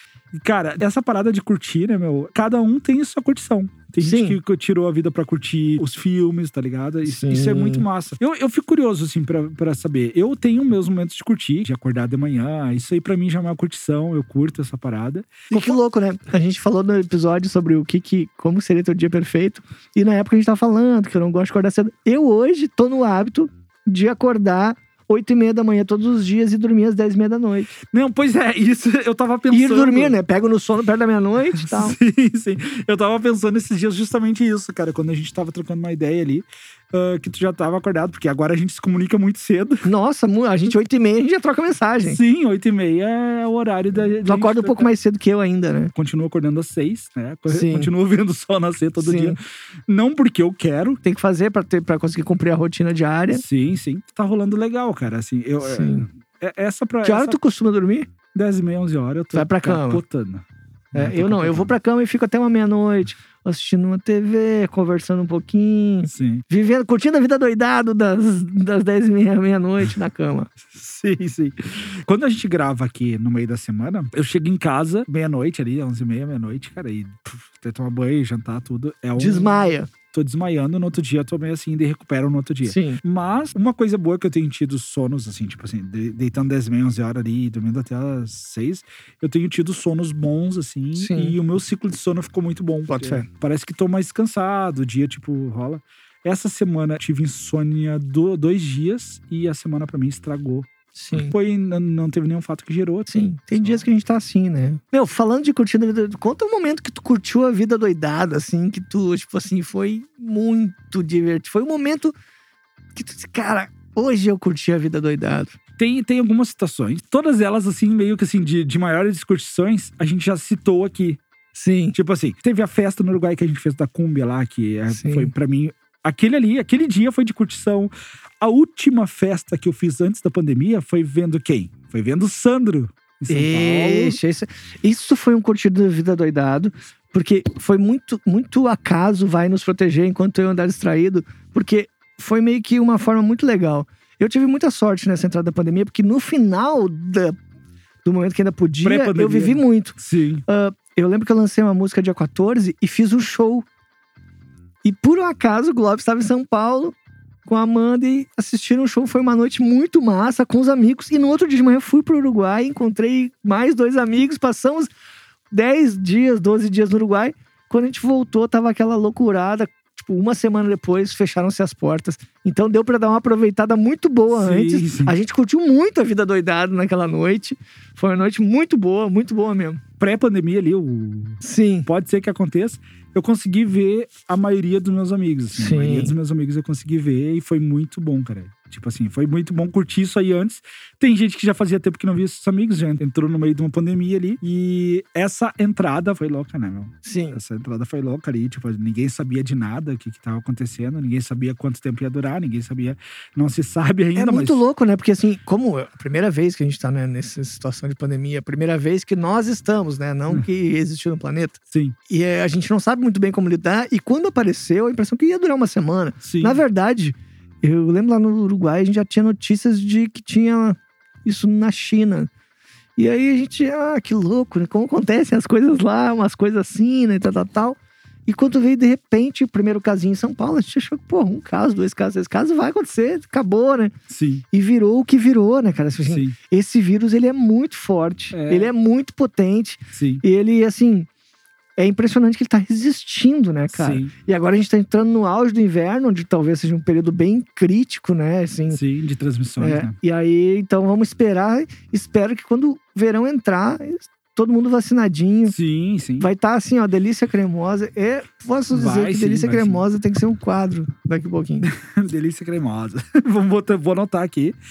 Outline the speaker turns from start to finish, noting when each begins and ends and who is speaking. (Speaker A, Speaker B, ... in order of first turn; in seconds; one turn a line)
Speaker A: 0.3-15.8
Speaker B: 4.0-4.4
Speaker B: 7.1-7.8
Speaker B: 15.5-27.8
Speaker A: 27.9-30.2
Speaker B: 29.5-31.9
Speaker A: 31.6-39.9
Speaker B: 39.8-42.2
Speaker A: 42.0-44.9
Speaker B: 44.3-45.9
Speaker A: 46.0-51.0
Speaker B: 47.5-47.9
Speaker B: 49.0-49.4
Speaker B: 51.0-53.4
Speaker A: 53.3-57.4
Speaker B: 55.6-56.1
Speaker B: 57.0-58.1
Speaker A: 58.3-61.7
Speaker B: 59.3-60.0
Speaker B: 60.9-70.5
Speaker A: 66.1-66.4
Speaker A: 70.7-103.8
Speaker B: 79.2-79.9
Speaker B: 82.7-83.0
Speaker B: 91.0-91.4
Speaker B: 92.9-93.3
Speaker B: 101.0-101.3
Speaker B: 103.1-112.1
Speaker B: 112.9-115.5
Speaker A: 115.8-121.2
Speaker B: 121.5-122.0
Speaker A: 121.9-134.2
Speaker B: 124.9-125.3
Speaker B: 133.3-147.4
Speaker B: 148.0-153.7
Speaker A: 148.8-150.4
Speaker B: 154.8-164.9
Speaker B: 165.5-179.8
Speaker A: 174.3-175.2
Speaker A: 180.0-204.6
Speaker B: 181.4-181.9
Speaker B: 185.6-186.2
Speaker B: 197.0-197.4
Speaker B: 204.2-211.6
Speaker B: 212.1-222.3
Speaker A: 216.2-216.6
Speaker B: 223.0-233.9
Speaker A: 234.1-234.4
Speaker B: 234.5-241.1
Speaker A: 236.1-236.4
Speaker A: 238.3-238.7
Speaker A: 239.9-240.2
Speaker B: 241.8-248.8
Speaker A: 243.7-244.1
Speaker A: 248.7-250.0
Speaker B: 249.6-255.6
Speaker A: 255.5-256.3
Speaker B: 256.2-261.7
Speaker A: 258.7-259.9
Speaker A: 261.6-264.6